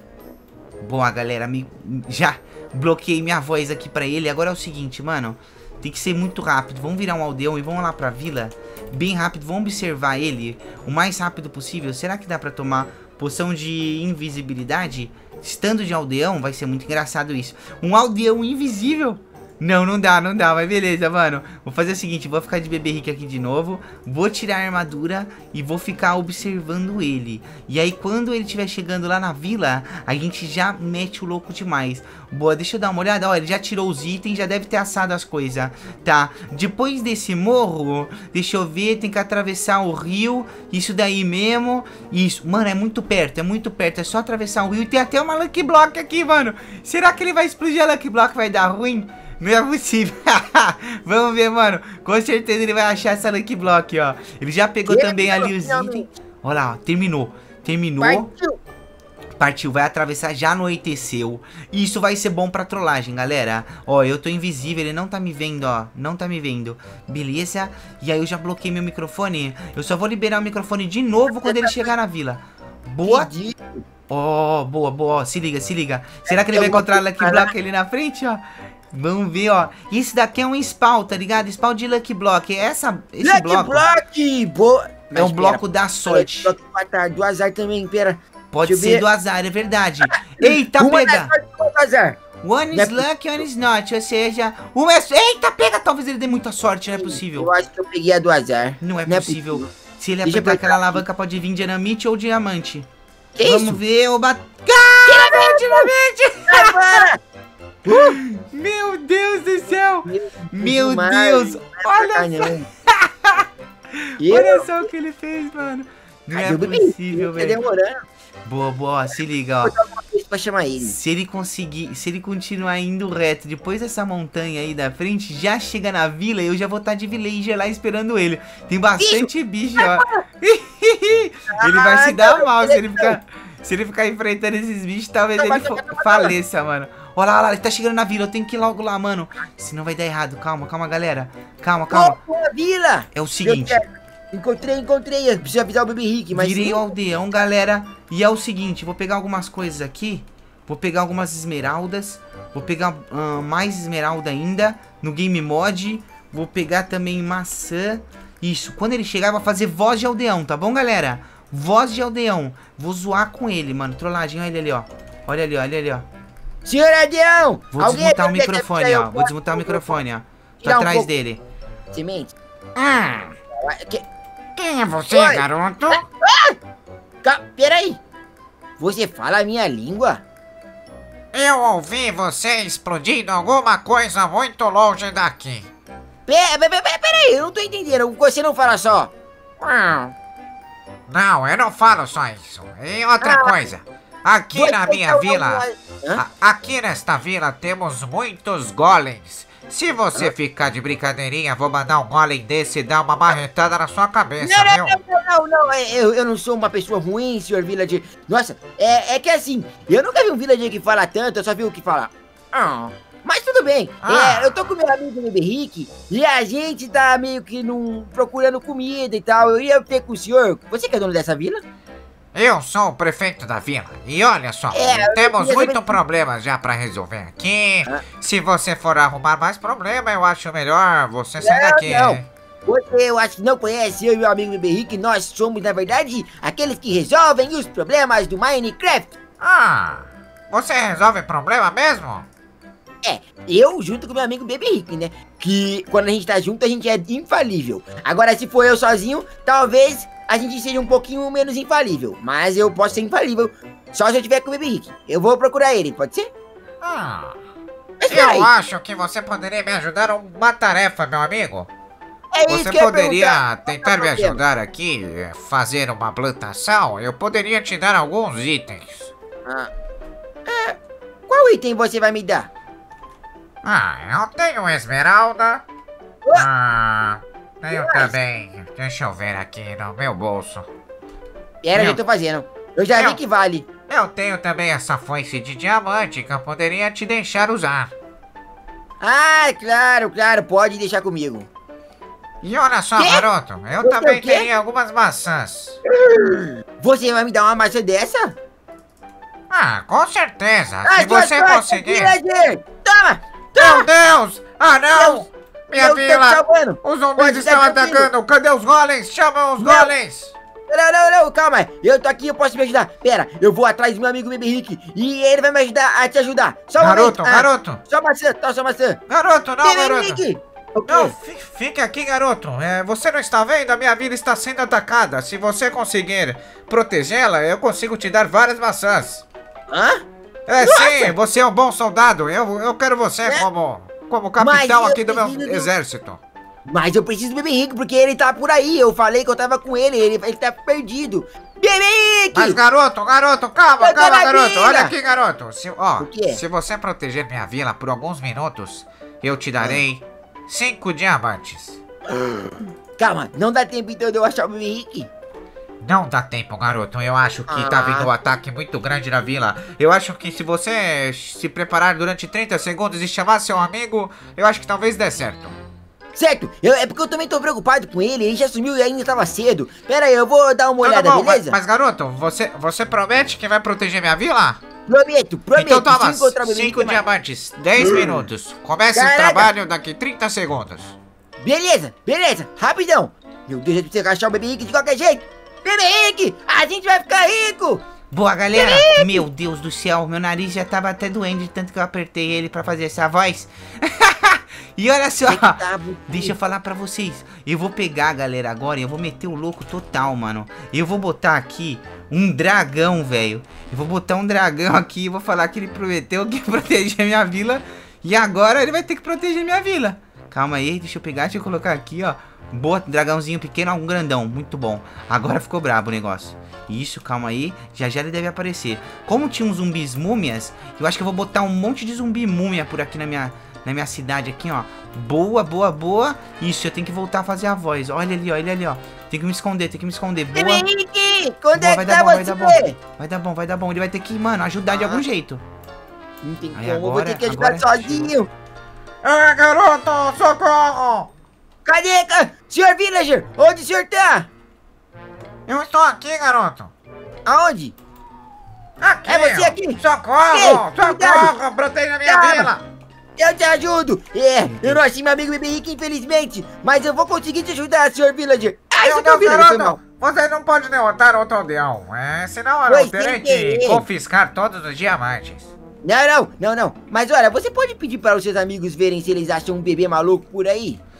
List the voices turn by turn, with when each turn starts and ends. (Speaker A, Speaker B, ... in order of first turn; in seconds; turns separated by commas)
Speaker A: 0.8-58.3, Speaker B: 54.9-56.1, Speaker B: 58.0-58.6, Speaker A: 59.4-73.3, Speaker B: 71.3-71.9, Speaker B: 73.0-73.8, Speaker A: 74.1-83.8, Speaker B: 76.2-77.5, Speaker B: 83.2-89.0, Speaker A: 85.2-86.5, Speaker A: 88.5-91.3, Speaker B: 90.1-92.2, Speaker A: 92.4-97.5, Speaker B: 92.7-93.0, Speaker B: 96.9-99.7, Speaker A: 98.8-102.9, Speaker B: 100.2-101.0, Speaker B: 103.3-103.8, Speaker A: 103.4-107.0, Speaker B: 105.1-105.9, Speaker B: 106.5-107.2, Speaker B: 107.8-108.2, Speaker A: 107.8-113.4, Speaker B: 110.0-112.7, Speaker A: 114.0-117.6, Speaker B: 114.2-114.7, Speaker B: 116.3-118.0, Speaker A: 118.5-119.7, Speaker B: 119.6-120.9, Speaker A: 120.8-142.2, Speaker B: 129.0-130.2, Speaker B: 131.5-133.2, Speaker B: 135.4-136.3, Speaker B: 141.9-146.9, Speaker A: 143.1-143.8, Speaker A: 146.3-166.1, Speaker B: 166.6-170.0, Speaker A: 167.7-171.4, Speaker B: 170.6-171.1, Speaker B: 171.9-172.3, Speaker C: 172.8-173.3, Speaker B: 173.5-174.0, Speaker C: 174.6-176.0, Speaker B: 175.1-176.6, Speaker B: 177.2-178.0, Speaker B: 178.8-180.2, Speaker C: 181.3-185.7, Speaker B: 186.3-189.1, Speaker C: 189.6-190.1, Speaker C: 191.1-195.6, Speaker B: 193.2-193.7, Speaker B: 194.5-196.2, Speaker C: 196.1-204.9, Speaker B: 204.4-221.6, Speaker C: 214.0-214.7, Speaker C: 222.3-232.3, Speaker B: 224.7-226.0, Speaker B: 231.4-239.1, Speaker C: 239.4-242.3, Speaker B: 243.0-256.3, Speaker C: 256.8-257.4, Speaker B: 258.0-258.5, Speaker C: 258.1-261.7, Speaker B: 262.3-264.4, Speaker C: 262.5-269.1, Speaker B: 269.4-269.7, Speaker B: 270.4-270.8, Speaker B: 271.3-272.5, Speaker C: 273.6-275.6, Speaker C: 276.3-280.7, Speaker B: 277.7-278.1, Speaker B: 281.6-283.7, Speaker C: 283.9-287.9, Speaker B: 289.0-291.5, Speaker C: 292.4-295.8, Speaker B: 293.0-293.3, Speaker B: 293.8-294.5, Speaker B: 295.9-298.3, Speaker C: 299.5-302.1, Speaker B: 300.8-303.9, Speaker C: 303.5-310.3, Speaker B: 304.9-308.1, Speaker B: 309.6-309.9, Speaker B: 310.7-319.0, Speaker C: 316.8-317.8, Speaker C: 319.1-320.2, Speaker B: 319.6-321.1, Speaker C: 320.9-329.2, Speaker B: 329.7-330.0, Speaker C: 330.5-336.2, Speaker B: 330.6-331.1, Speaker B: 334.4-335.7, Speaker B: 336.6-342.6, Speaker C: 342.3-351.8, Speaker B: 343.8-344.9, Speaker B: 346.0-346.4, Speaker B: 352.1-355.1, Speaker C: 355.8-365.5, Speaker B: 357.5-358.1, Speaker B: 366.1-371.6, Speaker C: 370.8-374.6, Speaker B: 374.9-377.0, Speaker C: 375.6-380.9, Speaker B: 377.8-378.1, Speaker B: 378.9-379.5, Speaker B: 381.4-387.8, Speaker A: 388.1-430.6, Speaker B: 388.5-389.2, Speaker B: 395.3-396.3, Speaker B: 430.3-432.8, Speaker A: 431.5-435.4, Speaker C: 434.7-435.0, Speaker B: 436.2-438.3, Speaker A: 436.5-438.1, Speaker C: 439.0-441.1, Speaker B: 441.6-444.3, Speaker C: 445.5-446.7, Speaker B: 447.2-447.7, Speaker C: 448.8-452.6, Speaker B: 449.1-451.4, Speaker B: 452.0-452.5, Speaker B: 453.2-459.8, Speaker A: 454.5-454.8, Speaker C: 458.8-465.5, Speaker B: 462.7-463.8, Speaker B: 465.8-470.8